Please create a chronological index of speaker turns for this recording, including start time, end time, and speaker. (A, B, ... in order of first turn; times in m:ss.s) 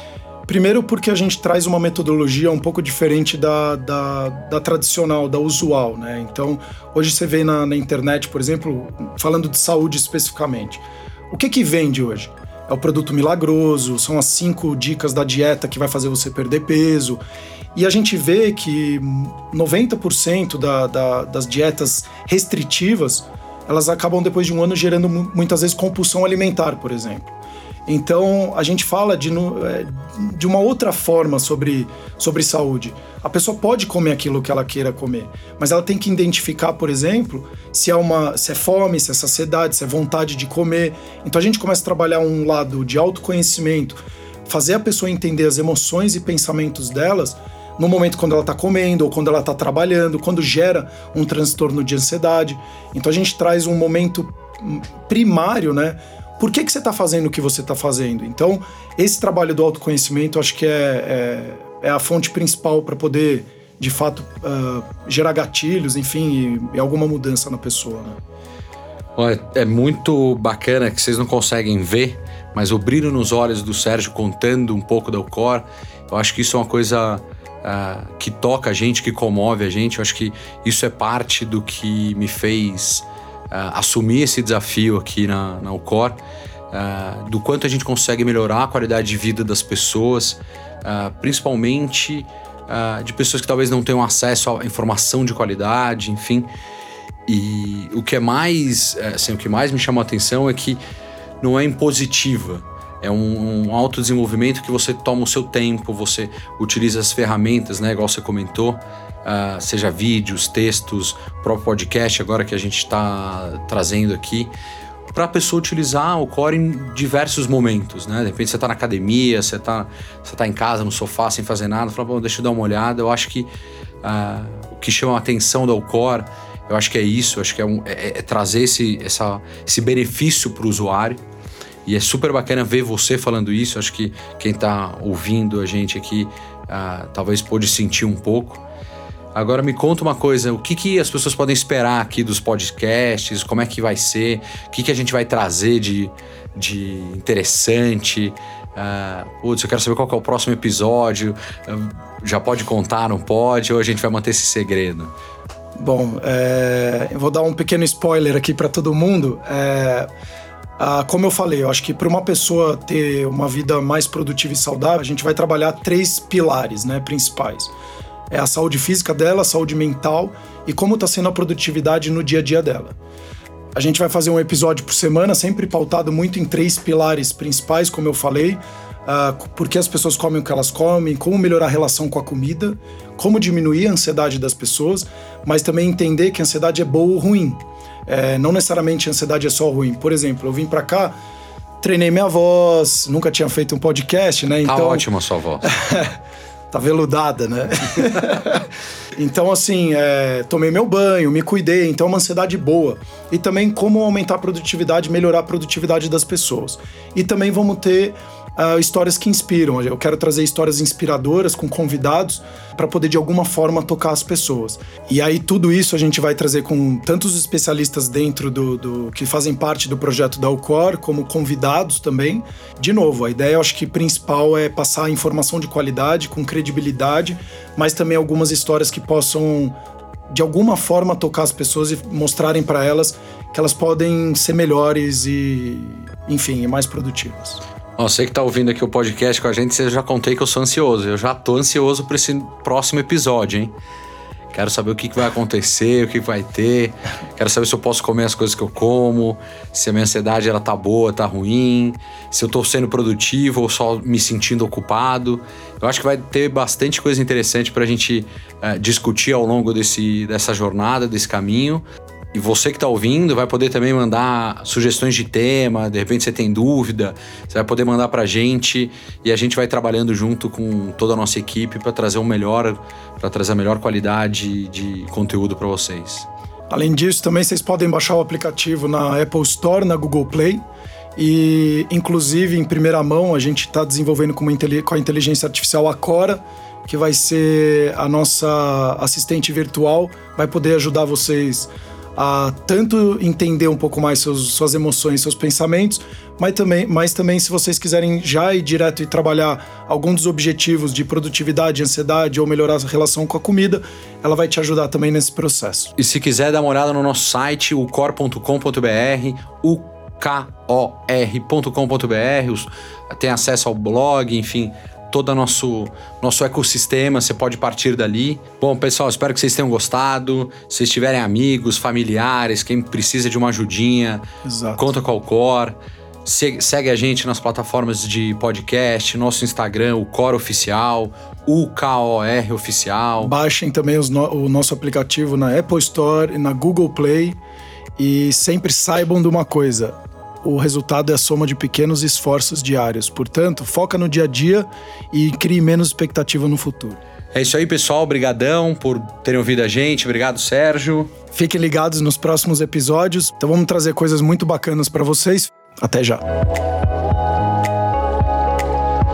0:00.5-0:17.2 A
0:17.7-0:27.3 A
0:27.9-1:08.2 A
1:09.2-1:26.2 B
1:26.7-1:36.5 B
1:37.3-1:40.8 B
1:41.4-1:54.5 B
1:55.1-2:03.5 B
2:04.0-2:11.2 B
2:11.8-2:18.6 B
2:19.3-2:35.1 B
2:35.8-2:40.1 A
2:40.8-2:47.7 A
2:48.3-2:53.0 A
2:53.7-3:11.1 A
3:11.8-3:15.1 A
3:14.6-3:15.7 B
3:15.6-3:16.2 A
3:16.7-3:18.6 A
3:19.2-3:49.7 A
3:50.3-3:57.6 A
3:58.0-4:03.7 B
4:04.5-4:36.3 B
4:36.7-4:40.6 A
4:41.2-5:05.9 A
5:06.0-5:24.2 B
5:24.4-5:24.8 A
5:24.8-5:33.3 B
5:33.2-5:37.4 A
5:38.0-5:47.0 A
5:47.3-5:51.1 B
5:51.3-5:56.2 A